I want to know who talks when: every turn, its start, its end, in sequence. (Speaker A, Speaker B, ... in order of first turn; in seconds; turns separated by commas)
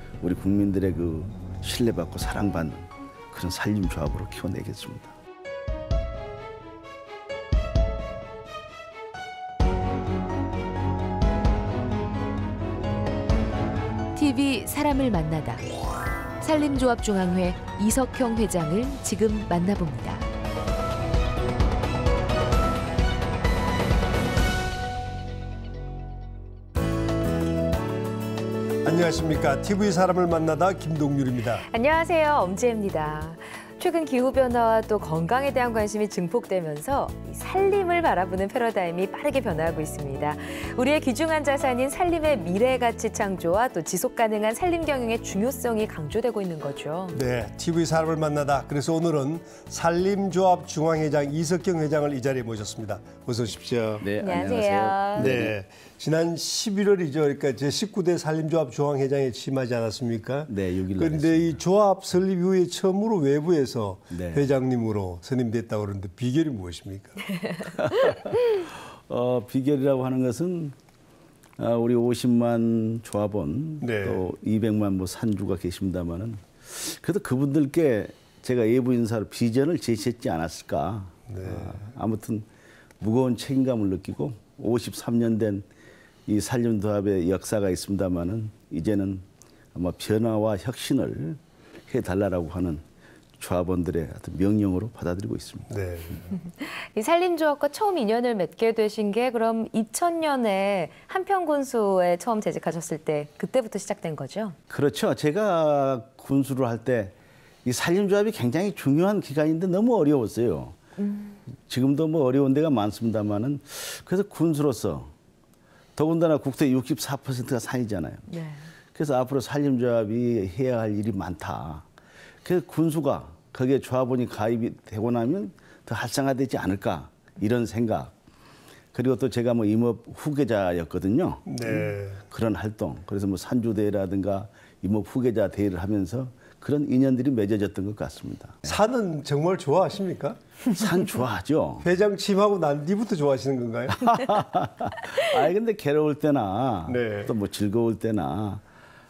Speaker A: 0.2-5.2, Speaker B: 14.2-15.7, Speaker B: 16.4-20.3, Speaker C: 28.8-31.6, Speaker D: 31.6-47.2, Speaker C: 47.1-54.1, Speaker A: 54.0-55.5, Speaker D: 54.2-55.4, Speaker C: 55.1-67.2, Speaker A: 60.5-61.6, Speaker A: 64.1-64.5, Speaker A: 67.6-70.8, Speaker A: 71.6-82.5, Speaker C: 73.8-74.3, Speaker C: 81.3-81.9, Speaker A: 83.0-85.7, Speaker A: 86.3-92.8, Speaker A: 93.4-95.7, Speaker C: 95.7-96.4, Speaker D: 96.4-104.6, Speaker A: 104.7-110.8, Speaker D: 111.0-111.4, Speaker A: 111.6-115.1, Speaker A: 116.0-118.3, Speaker D: 118.3-118.7, Speaker A: 118.9-121.9, Speaker A: 122.4-128.2, Speaker A: 128.9-138.8, Speaker C: 131.4-132.2, Speaker C: 138.6-140.4, Speaker A: 140.8-141.9, Speaker C: 141.8-144.2, Speaker A: 143.9-148.6, Speaker C: 146.9-147.3